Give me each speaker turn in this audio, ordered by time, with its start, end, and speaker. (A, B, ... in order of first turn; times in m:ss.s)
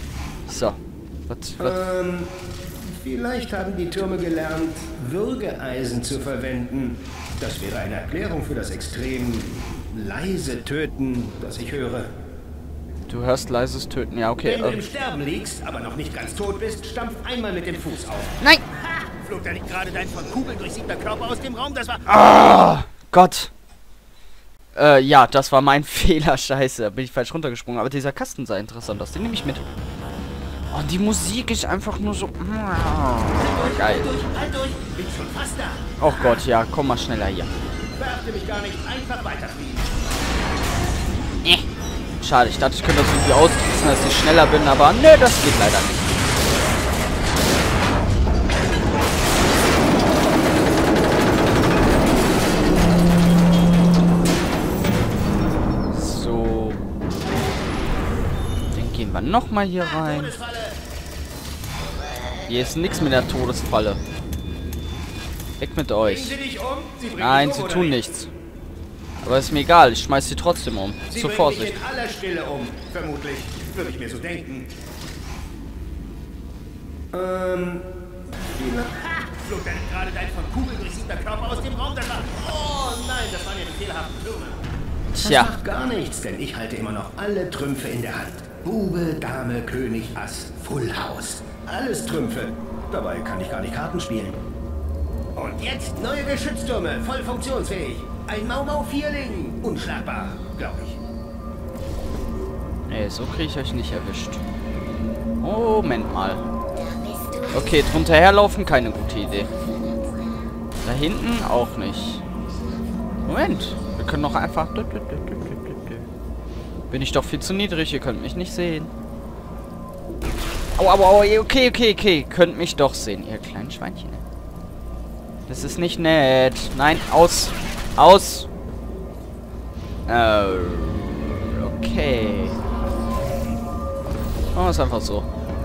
0:00.5-0:01.8 A
0:01.6-0:12.1 B
0:13.1-0:14.8 A
0:14.4-0:22.1 B
0:22.1-0:23.5 A
0:24.7-0:29.6 A
0:30.7-0:34.1 A
0:33.3-0:36.4 B
0:36.0-0:37.5 A
0:38.0-0:39.9 B
0:42.2-0:46.2 A
0:55.9-0:56.8 A
0:58.7-1:00.3 A
0:59.8-1:00.8 B
1:02.5-1:04.0 A
1:05.6-1:06.3 A
1:06.0-1:08.0 B
1:07.2-1:08.3 A
1:09.2-1:11.8 A
1:11.1-1:14.7 B
1:17.1-1:17.8 B
1:18.5-1:24.6 B
1:25.1-1:25.5 A
1:25.2-1:34.4 B
1:35.3-1:41.0 B
1:42.9-1:44.4 A
1:45.4-1:46.4 A
1:47.4-1:49.5 A
1:50.8-1:52.2 A
1:53.2-1:56.1 A
1:56.9-1:58.9 A
2:00.8-2:04.2 A
2:05.5-2:08.5 A
2:10.1-2:12.6 A
2:14.5-2:15.3 A